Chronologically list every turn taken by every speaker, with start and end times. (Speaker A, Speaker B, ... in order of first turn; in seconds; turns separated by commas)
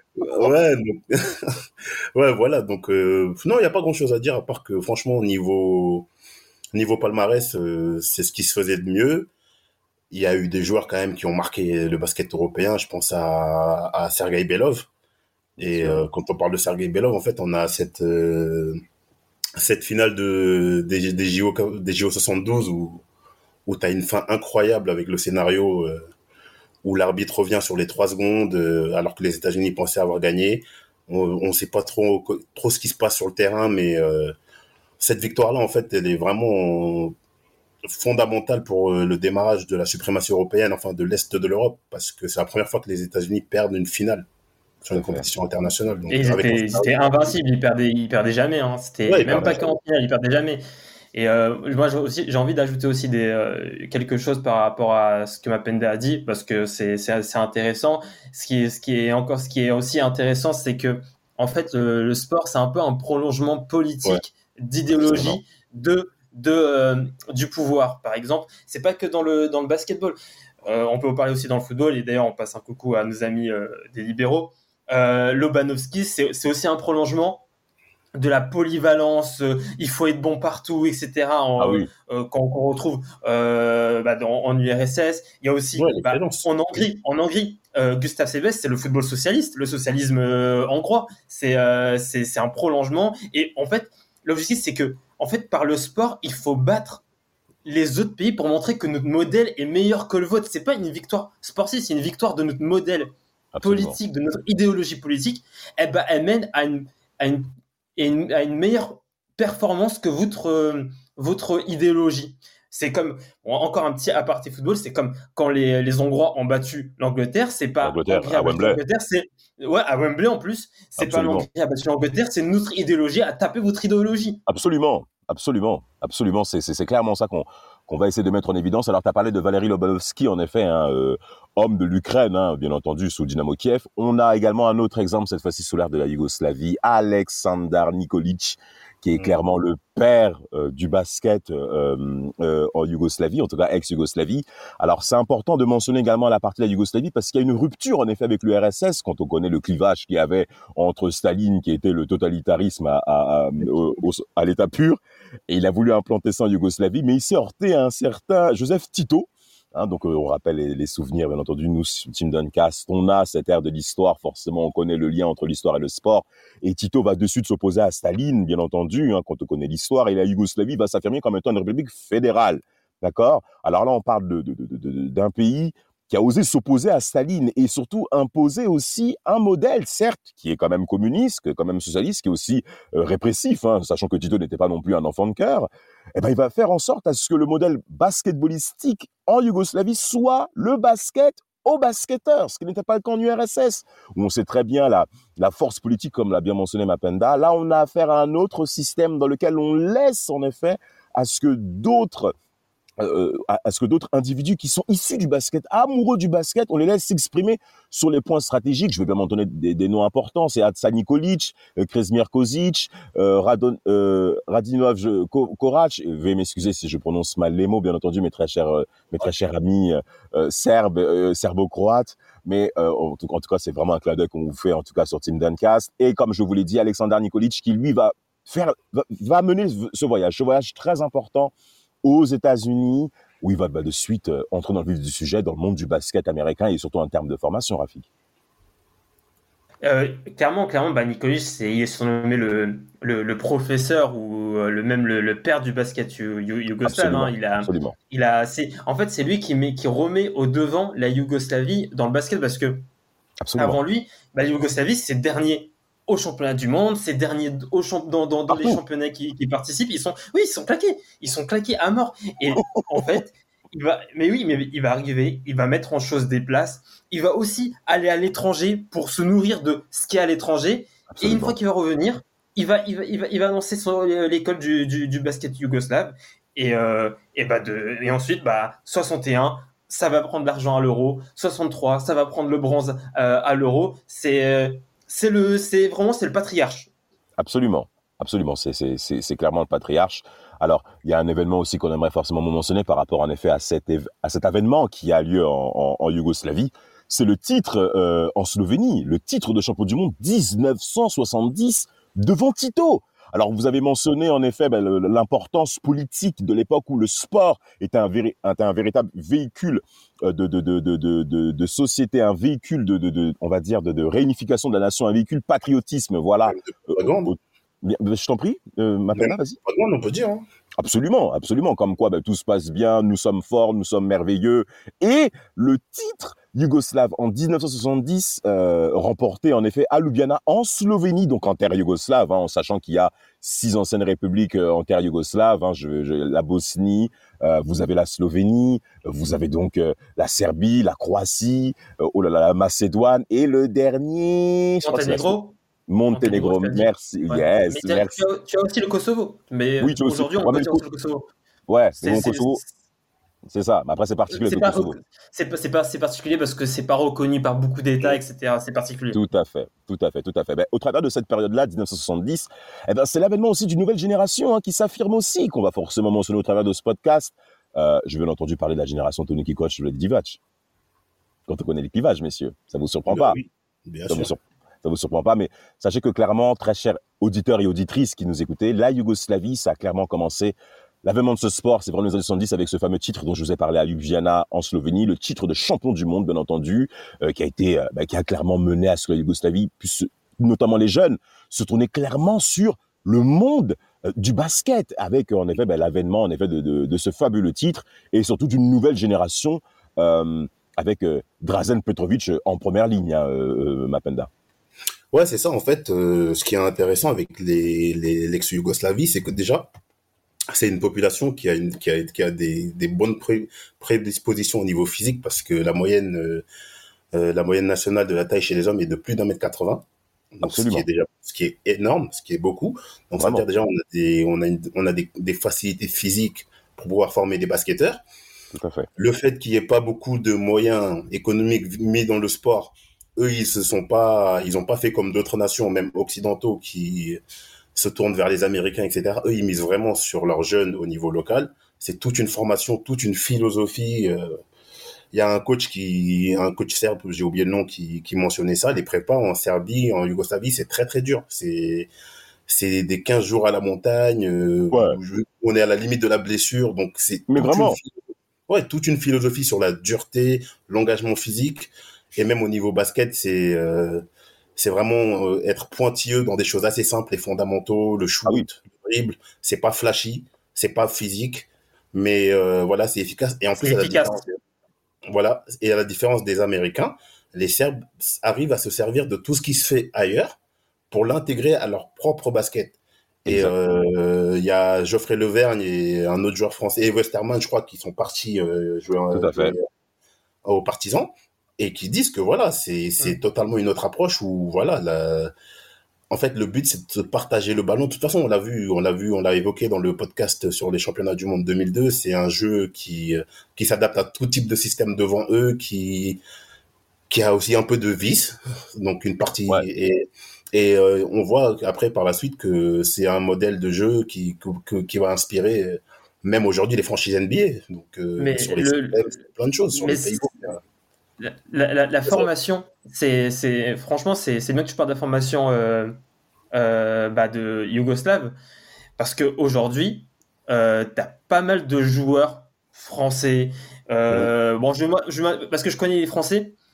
Speaker A: 0.2-1.5, Speaker B: 0.3-0.5, Speaker A: 2.1-6.1, Speaker A: 6.7-9.3, Speaker A: 10.1-14.9, Speaker A: 15.6-18.8, Speaker B: 15.6-16.1, Speaker A: 19.6-23.0, Speaker A: 23.7-26.1, Speaker A: 26.8-34.4, Speaker A: 35.0-37.1, Speaker A: 37.9-44.3, Speaker A: 44.8-47.2, Speaker B: 45.0-45.2, Speaker C: 46.1-50.6, Speaker A: 49.1-49.6, Speaker C: 51.1-77.4, Speaker B: 64.9-65.4, Speaker C: 78.2-97.0, Speaker B: 81.6-81.9, Speaker A: 85.8-86.8, Speaker C: 97.7-124.4, Speaker B: 103.5-104.0, Speaker B: 117.8-118.8, Speaker B: 121.0-121.5, Speaker B: 124.5-202.3, Speaker B: 203.0-231.5, Speaker B: 232.0-238.1, Speaker C: 239.8-252.9, Speaker B: 246.8-247.9, Speaker B: 253.4-253.8, Speaker C: 253.6-286.9, Speaker B: 258.5-258.8, Speaker B: 271.1-271.6, Speaker B: 287.4-319.6, Speaker A: 316.5-317.3, Speaker A: 319.2-320.4, Speaker B: 320.8-345.4, Speaker C: 344.8-345.6, Speaker B: 345.9-348.2, Speaker C: 346.1-351.3, Speaker B: 349.8-350.9, Speaker B: 351.7-352.6, Speaker C: 352.0-352.7, Speaker B: 353.5-355.0, Speaker C: 354.3-359.2, Speaker B: 359.1-370.4, Speaker B: 371.5-373.4, Speaker A: 373.1-374.3, Speaker B: 374.1-404.3, Speaker A: 405.1-409.7, Speaker A: 410.5-416.4, Speaker A: 417.1-419.9, Speaker A: 420.4-428.0, Speaker B: 420.4-420.9, Speaker B: 423.2-423.4, Speaker B: 428.5-428.9, Speaker A: 429.0-437.2, Speaker A: 437.8-444.4, Speaker A: 445.1-451.9, Speaker A: 452.5-457.9, Speaker B: 454.7-455.0, Speaker B: 457.3-457.8, Speaker A: 458.5-464.1, Speaker A: 464.6-474.4, Speaker C: 473.6-474.2, Speaker A: 475.1-480.4, Speaker A: 480.9-489.6, Speaker B: 483.3-483.8, Speaker B: 489.1-489.6, Speaker A: 490.4-495.3, Speaker A: 496.1-506.2, Speaker A: 507.1-520.6, Speaker C: 518.2-519.2, Speaker C: 519.8-520.1, Speaker C: 521.2-526.0, Speaker C: 526.5-528.4, Speaker C: 529.0-536.6